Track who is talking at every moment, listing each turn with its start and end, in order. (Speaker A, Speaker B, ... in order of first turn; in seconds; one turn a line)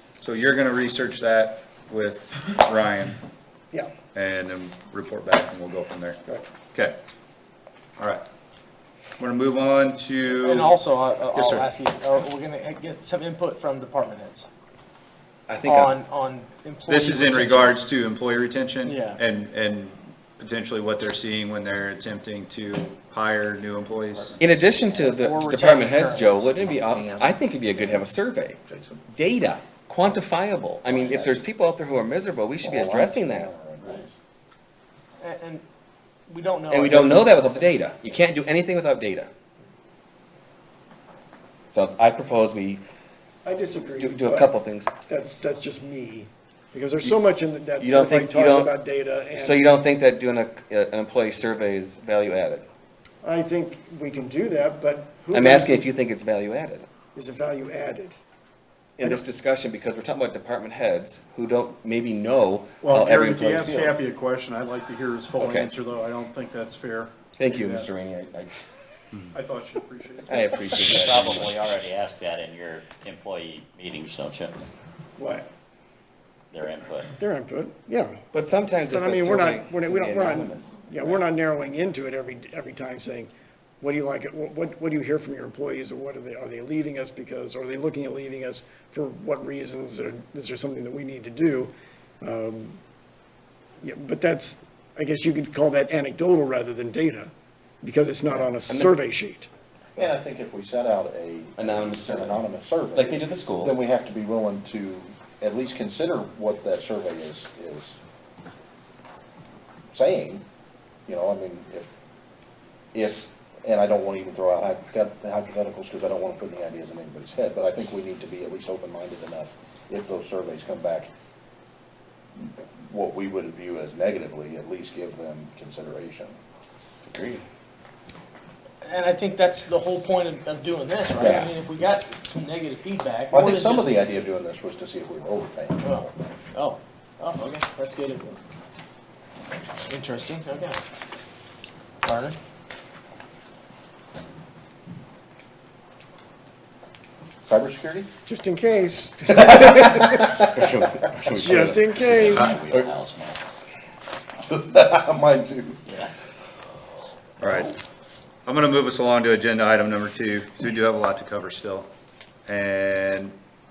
Speaker A: 0.2-3.2
Speaker A: 4.1-6.2
Speaker A: 8.0-8.2
Speaker A: 9.2-10.8
Speaker B: 10.4-14.5
Speaker A: 11.3-11.7
Speaker C: 15.5-16.0
Speaker B: 15.6-17.8
Speaker A: 16.9-24.4
Speaker B: 18.8-19.2
Speaker C: 24.4-28.6
Speaker B: 24.9-26.5
Speaker D: 26.7-28.1
Speaker D: 28.7-29.0
Speaker C: 29.1-33.5
Speaker D: 30.9-31.4
Speaker D: 32.6-34.1
Speaker B: 35.2-35.6
Speaker B: 36.3-37.4
Speaker C: 36.7-39.3
Speaker C: 41.7-42.8
Speaker E: 43.5-44.5
Speaker C: 44.0-44.9
Speaker E: 45.1-49.6
Speaker C: 47.8-48.8
Speaker C: 49.4-52.7
Speaker E: 53.2-55.8
Speaker C: 55.3-56.9
Speaker E: 57.1-58.1
Speaker C: 59.0-64.0
Speaker F: 62.8-67.9
Speaker C: 65.4-65.7
Speaker C: 67.4-68.6
Speaker F: 69.3-70.5
Speaker C: 70.3-71.5
Speaker G: 70.8-74.6
Speaker E: 75.2-75.5
Speaker G: 76.5-77.1
Speaker E: 77.2-78.2
Speaker C: 78.3-81.2
Speaker E: 78.9-83.3
Speaker E: 83.8-92.8
Speaker E: 93.8-99.5
Speaker C: 98.3-99.0
Speaker D: 100.0-108.0
Speaker C: 101.6-102.4
Speaker C: 103.0-103.8
Speaker D: 109.9-110.4
Speaker D: 111.1-111.9
Speaker D: 112.9-121.1
Speaker D: 122.4-126.4
Speaker C: 127.1-127.4
Speaker B: 128.8-134.1
Speaker C: 131.2-131.6
Speaker D: 133.3-136.1
Speaker B: 135.8-138.4
Speaker B: 139.9-140.8
Speaker B: 142.0-142.4
Speaker D: 147.4-148.1
Speaker E: 148.3-150.4
Speaker D: 149.6-150.2
Speaker C: 150.6-152.7
Speaker E: 151.2-152.5
Speaker G: 152.1-153.4
Speaker D: 154.5-155.8
Speaker G: 155.9-156.1
Speaker A: 157.4-157.7
Speaker A: 158.5-161.9
Speaker A: 162.5-163.3